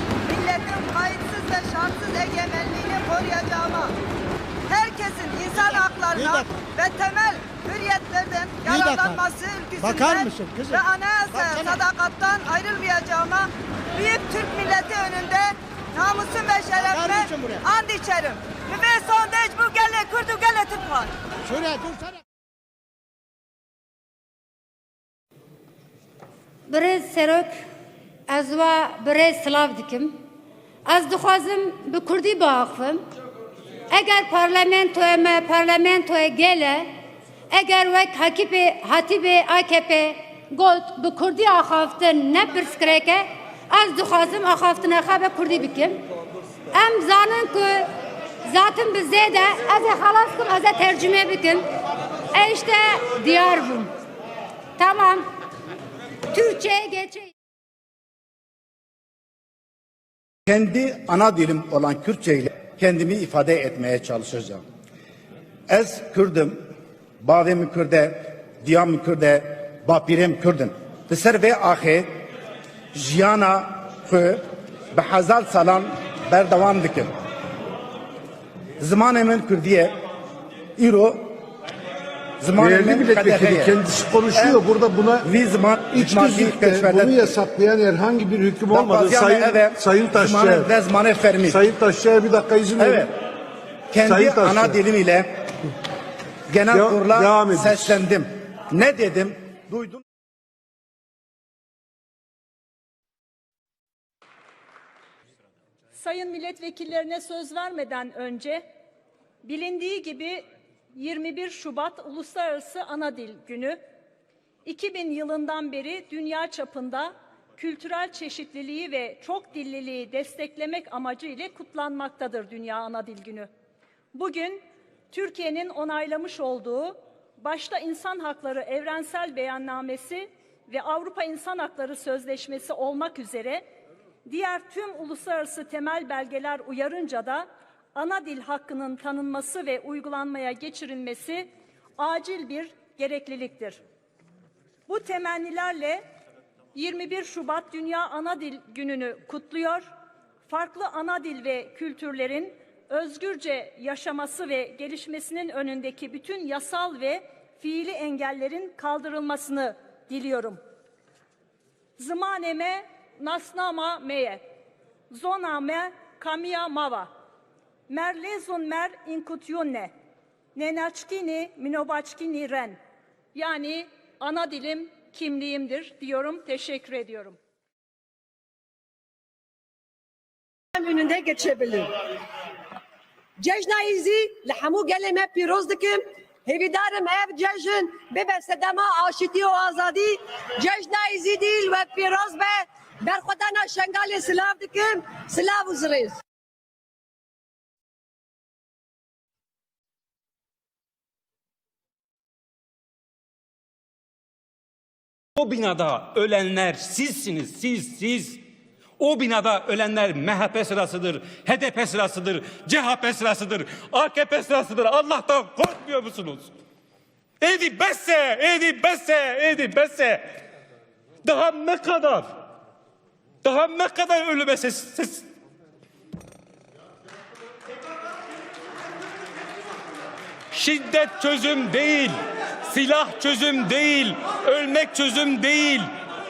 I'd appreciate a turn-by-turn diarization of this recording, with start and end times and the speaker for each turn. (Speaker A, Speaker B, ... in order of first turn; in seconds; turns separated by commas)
Speaker A: 0.2-3.9, Speaker A: 4.7-21.2, Speaker B: 26.7-27.5, Speaker B: 28.3-30.1, Speaker B: 30.9-33.0, Speaker B: 33.9-36.9, Speaker B: 37.6-46.0, Speaker B: 46.8-47.9, Speaker B: 48.5-51.6, Speaker B: 52.3-53.9, Speaker B: 54.8-55.2, Speaker B: 56.3-57.3, Speaker C: 60.5-64.6, Speaker C: 65.7-66.6, Speaker C: 67.2-72.2, Speaker C: 72.9-77.1, Speaker C: 78.8-79.9, Speaker C: 80.8-81.3, Speaker C: 82.4-83.8, Speaker D: 82.6-85.3, Speaker C: 84.3-84.6, Speaker C: 85.2-87.3, Speaker D: 85.9-90.7, Speaker C: 88.7-91.6, Speaker D: 91.5-93.1, Speaker C: 92.8-93.1, Speaker C: 93.9-95.3, Speaker D: 94.1-94.8, Speaker C: 96.5-100.0, Speaker D: 96.7-97.9, Speaker E: 105.9-108.6, Speaker E: 109.4-113.8, Speaker E: 114.7-123.5, Speaker E: 124.1-124.6, Speaker E: 125.1-133.6, Speaker E: 134.3-143.8, Speaker E: 144.9-146.0, Speaker E: 146.7-149.9, Speaker E: 150.5-160.6, Speaker E: 162.0-164.4, Speaker E: 165.1-167.1, Speaker E: 167.9-169.9, Speaker E: 170.6-172.8, Speaker E: 173.3-177.4, Speaker F: 180.7-181.9, Speaker F: 183.4-196.2, Speaker G: 205.4-208.4, Speaker G: 209.0-216.5, Speaker G: 217.4-220.2, Speaker G: 221.3-222.3, Speaker G: 223.4-225.2, Speaker G: 230.6-232.1, Speaker G: 232.7-235.8